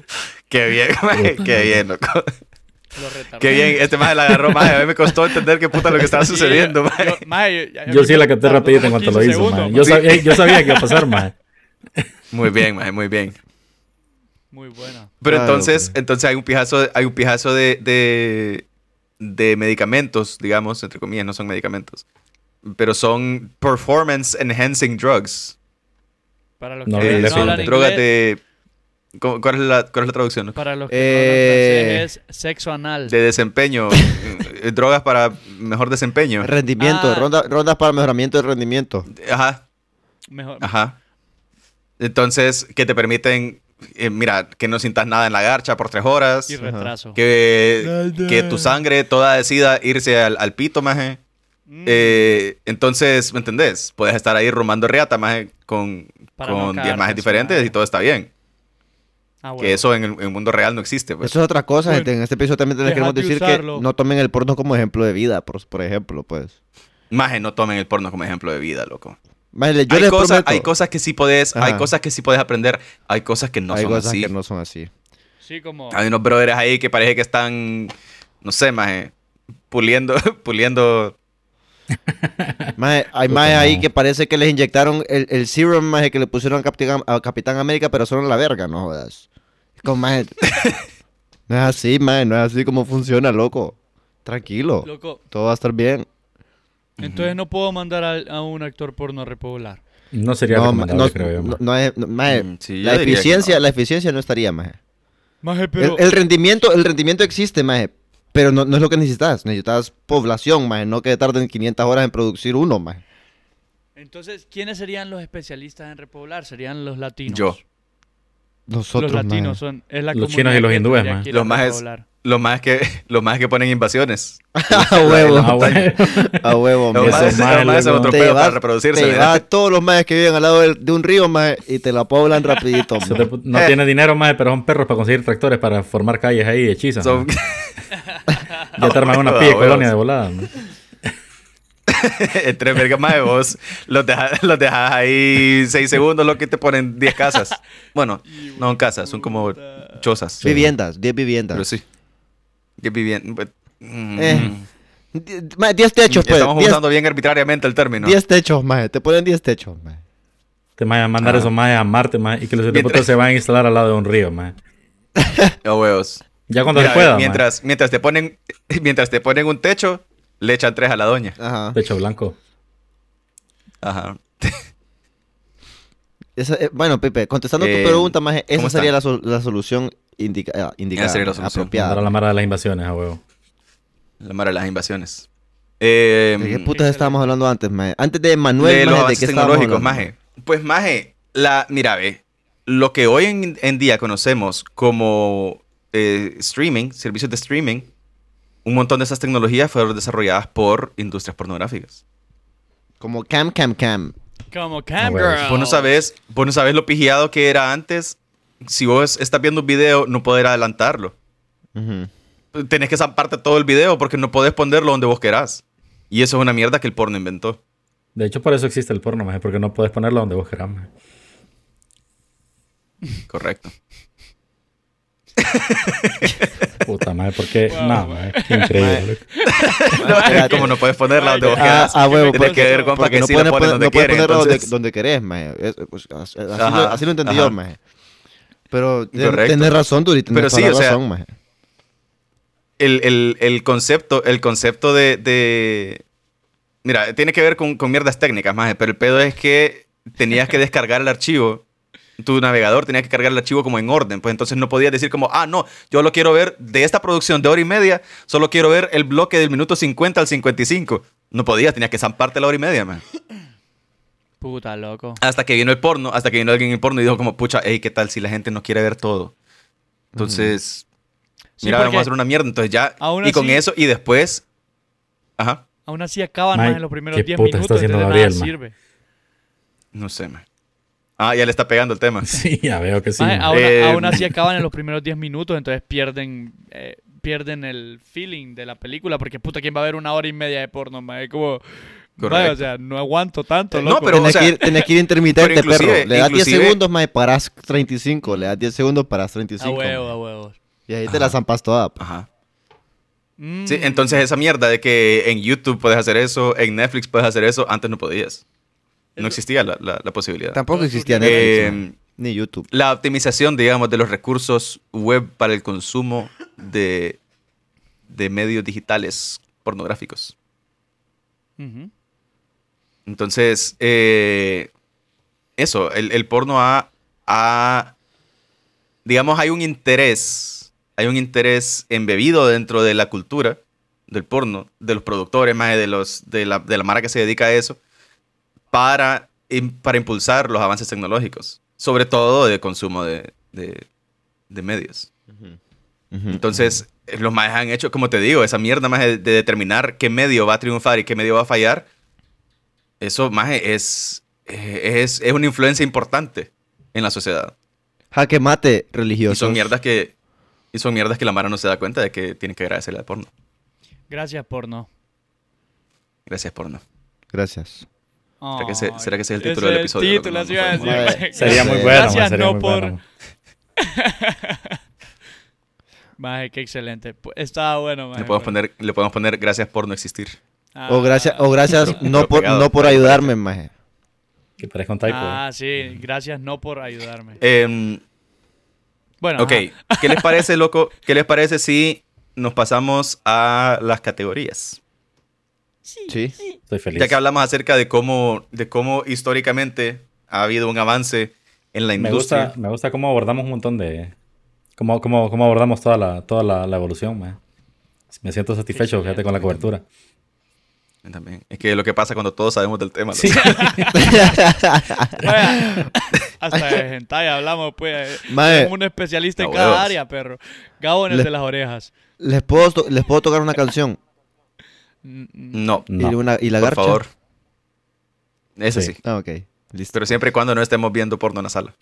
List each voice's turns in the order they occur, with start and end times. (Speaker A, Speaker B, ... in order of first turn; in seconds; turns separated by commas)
Speaker A: 0.5-2.3, Speaker B: 1.1-1.8, Speaker C: 3.0-3.8, Speaker A: 3.4-7.2, Speaker C: 6.1-10.9, Speaker B: 7.9-11.3, Speaker A: 9.8-10.8, Speaker A: 12.3-13.4, Speaker C: 14.5-15.1, Speaker A: 15.2-18.6, Speaker D: 15.2-15.9, Speaker A: 19.2-22.0, Speaker A: 22.6-25.6, Speaker C: 26.6-28.1, Speaker B: 26.9-27.7, Speaker A: 27.0-28.4, Speaker A: 29.2-30.6, Speaker C: 30.6-33.1, Speaker D: 30.9-32.1, Speaker A: 33.1-36.5, Speaker D: 36.4-39.1, Speaker C: 36.8-37.3, Speaker A: 39.1-39.6, Speaker C: 40.3-40.7, Speaker A: 40.6-41.0, Speaker A: 42.0-46.6, Speaker C: 46.5-47.2, Speaker D: 46.6-46.9, Speaker A: 47.1-51.2, Speaker D: 47.8-48.8, Speaker C: 51.7-52.4, Speaker A: 51.9-58.3, Speaker C: 56.4-57.8, Speaker C: 59.4-59.8, Speaker A: 59.6-61.3, Speaker D: 61.2-66.5, Speaker C: 62.8-63.9, Speaker A: 67.1-69.2, Speaker D: 69.5-70.7, Speaker A: 69.9-74.3, Speaker D: 71.5-71.9, Speaker D: 73.7-74.9, Speaker C: 75.4-76.0, Speaker A: 75.9-79.1, Speaker A: 79.7-81.2, Speaker B: 82.1-82.7, Speaker D: 82.8-89.2, Speaker B: 83.3-83.9, Speaker D: 89.8-90.4, Speaker D: 91.5-96.1, Speaker C: 94.8-95.2, Speaker A: 97.0-97.4, Speaker C: 97.0-99.8, Speaker B: 100.1-101.6, Speaker D: 100.5-104.8, Speaker A: 102.3-103.6, Speaker C: 105.4-106.0, Speaker D: 105.8-113.0, Speaker C: 114.0-117.6, Speaker A: 117.3-117.6, Speaker D: 118.7-119.6, Speaker C: 119.0-122.0, Speaker B: 120.1-121.3, Speaker A: 121.3-126.0, Speaker D: 124.6-133.3, Speaker B: 125.1-128.2, Speaker A: 126.9-129.4, Speaker B: 133.0-137.3, Speaker A: 137.0-137.7, Speaker A: 138.8-139.9, Speaker B: 138.8-140.5, Speaker A: 141.9-150.4, Speaker C: 148.3-150.1, Speaker B: 150.4-150.7, Speaker D: 150.4-151.7, Speaker A: 151.5-151.8, Speaker A: 152.8-154.7, Speaker D: 154.2-154.6, Speaker D: 155.1-156.8, Speaker A: 156.1-158.2, Speaker D: 158.0-160.0, Speaker B: 160.8-164.6, Speaker A: 161.2-161.5, Speaker A: 162.7-163.1, Speaker A: 165.6-171.4, Speaker B: 166.5-167.4, Speaker D: 171.4-171.8, Speaker B: 171.7-172.4, Speaker A: 173.8-174.6, Speaker D: 176.4-182.1, Speaker A: 177.6-178.9, Speaker A: 181.0-181.7, Speaker B: 181.8-183.2, Speaker A: 184.2-185.3, Speaker A: 185.8-186.7, Speaker D: 186.4-190.1, Speaker C: 186.7-187.2, Speaker A: 188.6-197.9, Speaker A: 198.7-202.0, Speaker D: 203.0-204.2, Speaker C: 204.5-206.0, Speaker B: 205.0-205.4, Speaker A: 205.4-211.2, Speaker D: 211.8-212.1, Speaker A: 212.5-217.6, Speaker B: 218.2-220.9, Speaker A: 223.3-223.7, Speaker A: 225.4-226.5, Speaker B: 226.8-229.2, Speaker C: 227.7-233.0, Speaker D: 228.8-229.1, Speaker A: 229.6-234.7, Speaker D: 230.0-230.8, Speaker D: 231.4-237.8, Speaker A: 236.6-237.6, Speaker D: 238.7-241.3, Speaker A: 239.1-241.0, Speaker A: 242.8-246.0, Speaker A: 246.8-251.6, Speaker A: 252.2-263.0, Speaker C: 264.4-265.2, Speaker A: 265.2-269.3, Speaker D: 270.1-270.6, Speaker A: 270.2-270.9, Speaker C: 271.6-272.1, Speaker A: 271.6-274.4, Speaker C: 273.0-273.6, Speaker C: 275.9-278.8, Speaker B: 276.5-278.5, Speaker A: 279.9-280.4, Speaker A: 281.2-282.3, Speaker B: 282.2-283.6, Speaker C: 283.2-291.6, Speaker A: 283.5-284.3, Speaker C: 292.2-294.8, Speaker A: 292.2-292.6, Speaker A: 293.7-294.6, Speaker D: 294.1-300.1, Speaker A: 295.4-296.8, Speaker C: 299.6-300.6, Speaker D: 300.9-302.0, Speaker A: 301.1-301.4, Speaker A: 302.0-302.3, Speaker C: 303.4-304.2, Speaker A: 303.7-308.4, Speaker A: 309.2-310.6, Speaker D: 310.5-312.7, Speaker C: 310.7-311.8, Speaker A: 311.2-311.9, Speaker A: 312.7-317.2, Speaker A: 318.1-320.3, Speaker C: 321.6-321.9, Speaker A: 323.1-324.7, Speaker A: 325.6-327.9, Speaker A: 329.1-337.8, Speaker A: 338.7-343.9, Speaker A: 344.5-345.1, Speaker D: 345.3-345.6, Speaker D: 346.1-346.8, Speaker A: 346.3-351.9, Speaker A: 353.0-357.5, Speaker D: 358.1-359.7, Speaker A: 359.3-360.1, Speaker A: 360.7-363.3, Speaker C: 364.1-364.9, Speaker A: 366.3-366.8, Speaker D: 367.3-367.9, Speaker C: 368.4-373.0, Speaker A: 368.6-371.2, Speaker D: 370.8-372.2, Speaker B: 371.3-373.0, Speaker C: 373.8-374.8, Speaker C: 376.2-378.6, Speaker A: 378.1-380.4, Speaker C: 380.8-382.1, Speaker D: 380.9-383.7, Speaker A: 381.7-383.3, Speaker B: 384.6-385.4, Speaker C: 385.1-387.4, Speaker A: 387.4-388.0, Speaker C: 389.2-390.4, Speaker A: 389.4-394.8, Speaker C: 395.9-396.6, Speaker D: 396.1-396.4, Speaker B: 396.7-397.2, Speaker A: 396.9-402.5, Speaker B: 402.0-404.1, Speaker B: 404.8-407.4, Speaker B: 408.1-409.9, Speaker C: 408.7-409.4, Speaker A: 411.0-413.8, Speaker B: 413.1-414.1, Speaker C: 413.3-414.5, Speaker D: 413.9-415.9, Speaker C: 415.1-421.9, Speaker D: 418.3-418.7, Speaker A: 419.4-420.0, Speaker D: 422.2-424.0, Speaker C: 425.0-425.6, Speaker A: 425.5-425.9, Speaker B: 425.9-426.2, Speaker D: 426.0-427.0, Speaker A: 426.6-427.1, Speaker A: 428.6-429.0, Speaker D: 429.0-430.1, Speaker A: 429.9-431.7